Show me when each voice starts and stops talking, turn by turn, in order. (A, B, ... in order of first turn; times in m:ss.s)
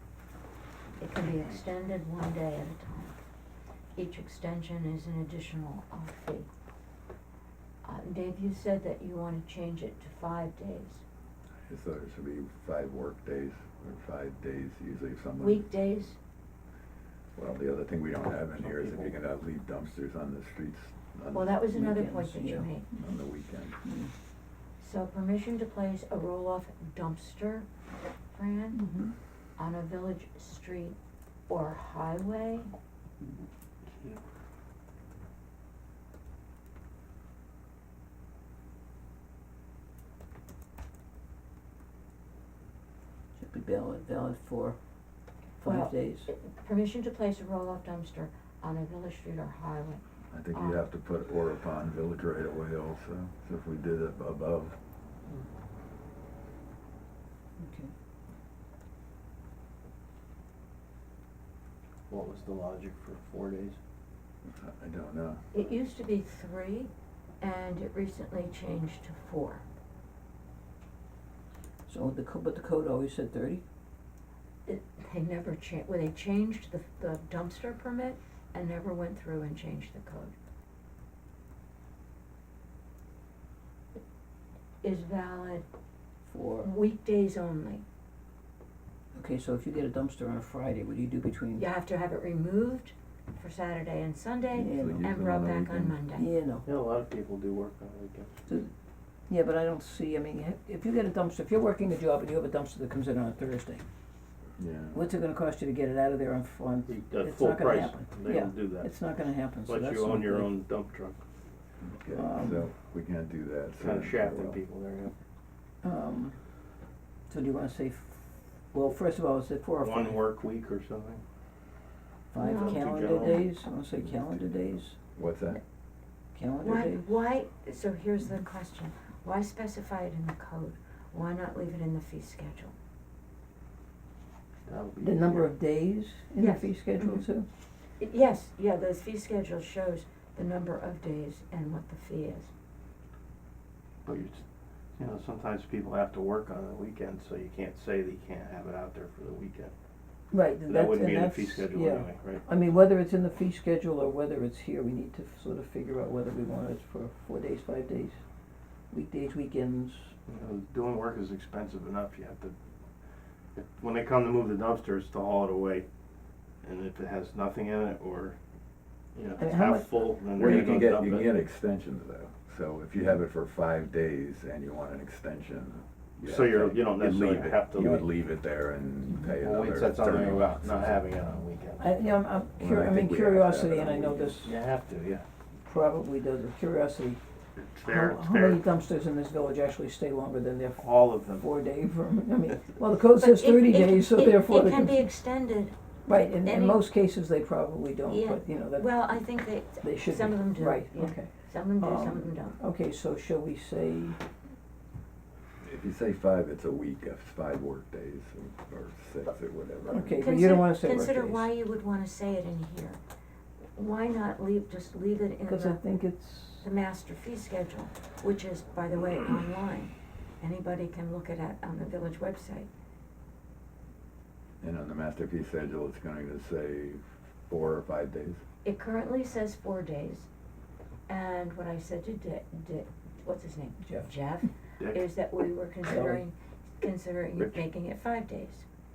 0:01.0-0:03.2 A
0:04.0-0:06.5 A
0:07.8-0:11.0 A
0:11.6-0:15.7 B
0:15.4-0:16.2 A
0:17.3-0:21.6 B
0:18.6-0:19.1 C
0:21.3-0:22.9 A
0:21.7-0:22.7 D
0:23.0-0:23.8 B
0:23.8-0:24.1 D
0:24.8-0:27.7 A
0:28.3-0:28.9 A
0:28.7-0:29.1 D
0:29.6-0:31.0 A
0:31.5-0:32.7 A
0:43.4-0:44.8 D
0:45.6-0:46.3 D
0:45.6-0:50.8 A
0:50.3-0:54.8 B
0:57.6-0:57.9 D
1:02.1-1:03.8 C
1:04.5-1:05.4 B
1:05.5-1:09.6 A
1:11.9-1:13.6 D
1:14.7-1:20.3 A
1:24.8-1:25.7 A
1:26.3-1:26.7 D
1:26.6-1:27.8 A
1:29.1-1:31.7 D
1:31.6-1:36.3 A
1:34.6-1:35.1 D
1:34.6-1:36.0 B
1:36.2-1:36.7 D
1:36.7-1:38.4 C
1:38.5-1:38.7 D
1:39.3-1:43.8 D
1:44.6-1:45.1 B
1:44.9-1:50.5 D
1:46.9-1:48.9 C
1:49.7-1:51.2 C
1:51.8-1:54.6 B
1:52.1-1:52.7 D
1:53.8-1:55.2 C
1:55.8-1:56.4 D
1:57.3-2:00.2 D
1:59.8-2:01.2 C
2:02.3-2:05.0 D
2:02.4-2:03.5 C
2:02.4-2:03.4 A
2:04.1-2:04.6 B
2:05.1-2:05.6 B
2:06.4-2:07.1 D
2:06.6-2:12.7 A
2:14.7-2:15.5 C
2:15.0-2:17.5 D
2:16.4-2:17.2 A
2:18.0-2:22.5 A
2:24.0-2:24.4 C
2:25.0-2:29.7 C
2:30.3-2:38.2 D
2:30.7-2:32.4 C
2:38.9-2:40.1 D
2:40.3-2:42.6 C
2:43.5-2:45.9 C
2:46.6-2:48.4 C
2:49.1-2:51.4 C
2:49.4-2:50.1 D
2:50.4-3:01.0 B
2:56.2-2:58.1 C
2:59.4-3:01.9 C
3:01.8-3:04.5 D
3:02.6-3:04.4 B
3:04.4-3:05.2 C
3:05.7-3:07.2 D
3:07.6-3:08.6 C
3:07.8-3:15.0 D
3:10.8-3:11.4 C
3:13.1-3:15.8 A
3:16.1-3:19.0 D
3:16.4-3:16.8 A
3:18.1-3:22.6 A
3:19.8-3:24.2 D
3:25.6-3:30.2 B
3:29.9-3:33.0 A
3:29.9-3:31.5 D
3:33.7-3:35.8 A
3:35.4-3:36.6 D
3:36.6-3:42.7 A
3:44.6-3:48.4 B
3:48.6-3:50.3 A
3:51.1-3:58.7 A
3:53.8-3:54.1 D
3:54.8-3:55.0 C
3:55.8-3:56.2 D
3:57.4-3:57.6 C